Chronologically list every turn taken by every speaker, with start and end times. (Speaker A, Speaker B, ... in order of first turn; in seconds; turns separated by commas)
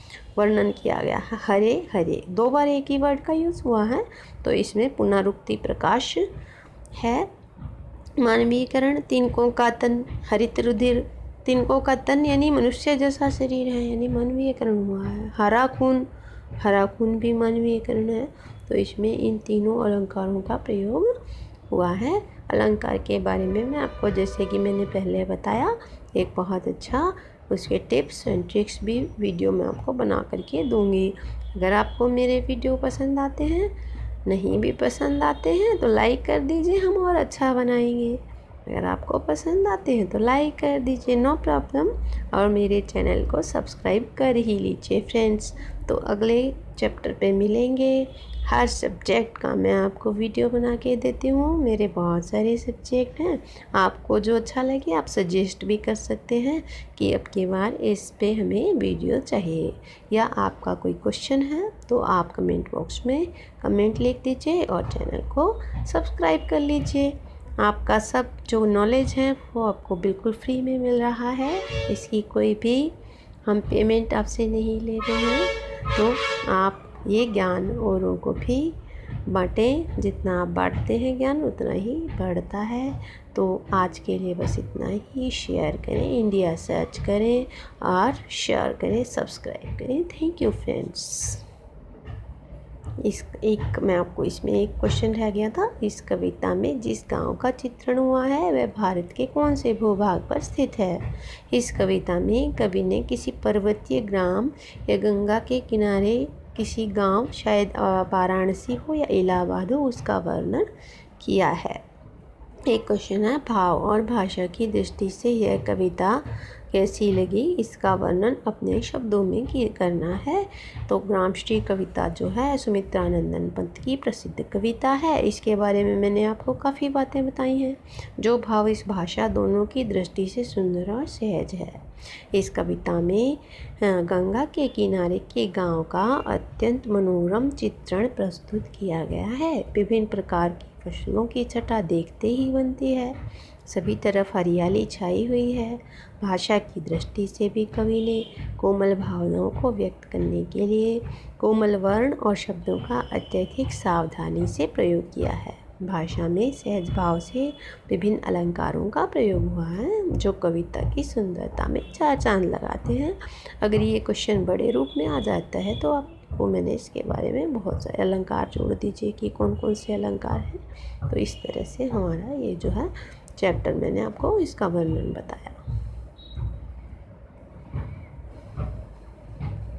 Speaker A: 0.3-6.3, Speaker A: 7.0-7.3, Speaker A: 8.2-16.1, Speaker A: 16.6-21.1, Speaker A: 21.7-33.7, Speaker A: 34.2-91.4, Speaker A: 93.0-111.8, Speaker A: 112.7-175.6